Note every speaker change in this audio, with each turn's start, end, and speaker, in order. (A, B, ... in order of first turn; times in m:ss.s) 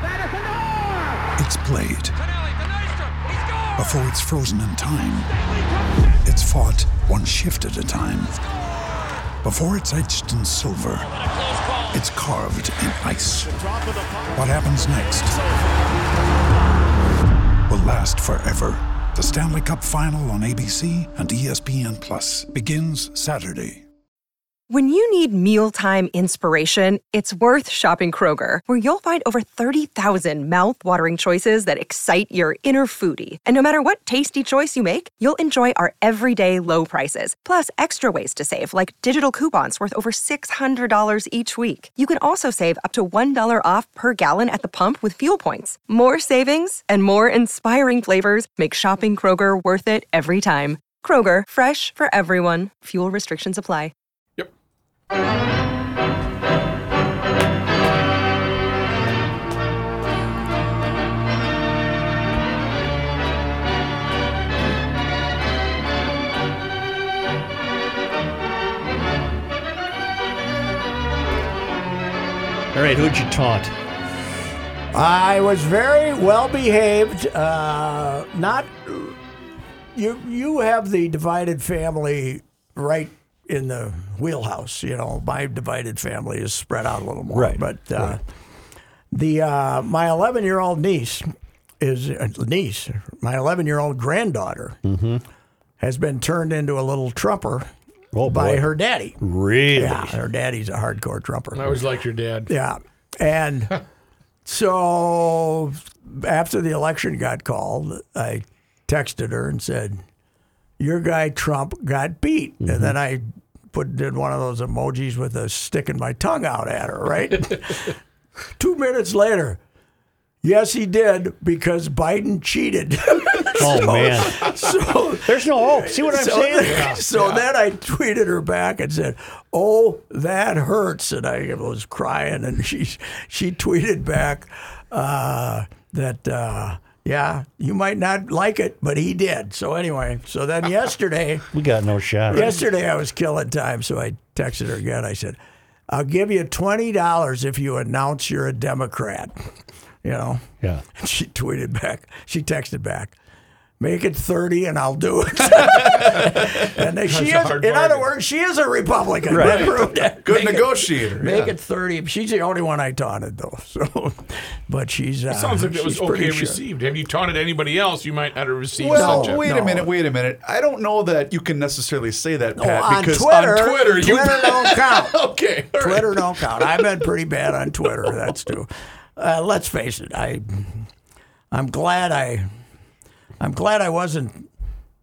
0:01.4-0:02.2 A
0:03.8-0:05.3 A
0:06.2-0:08.4 A
0:09.4-0:11.2 A
0:11.9-0:13.6 A
0:14.3-0:15.4 A
0:17.7-0:23.8 A
0:24.7-0:53.9 B
1:12.7-1:13.7 C
1:14.9-1:19.2 D
1:19.9-1:28.2 D
1:27.3-1:28.2 C
1:29.1-1:31.3 D
1:31.8-1:34.8 D
1:34.8-1:35.2 C
1:35.8-1:37.7 D
1:38.1-1:40.2 C
1:38.2-1:39.2 D
1:39.7-1:41.8 D
1:41.5-1:42.5 E
1:42.5-1:43.8 D
1:44.4-1:50.0 D
1:50.8-1:57.9 D
1:52.6-1:52.9 C
1:58.6-1:59.6 D
2:00.4-2:21.5 D
2:03.6-2:04.6 C
2:05.1-2:06.9 C
2:06.7-2:07.4 E
2:21.5-2:22.5 C
2:22.3-2:25.4 D
2:25.9-2:29.4 D
2:30.0-2:30.4 D
2:30.9-2:33.2 D
2:33.8-2:46.6 D
2:35.4-2:36.6 F
2:37.0-2:38.1 E
2:39.3-2:39.7 C
2:40.2-2:41.5 F
2:45.3-2:49.9 E
2:48.8-2:56.2 F
2:48.9-2:49.5 D
2:52.6-2:55.2 D
2:55.7-3:00.9 D
3:01.5-3:02.5 D
3:03.4-3:04.5 D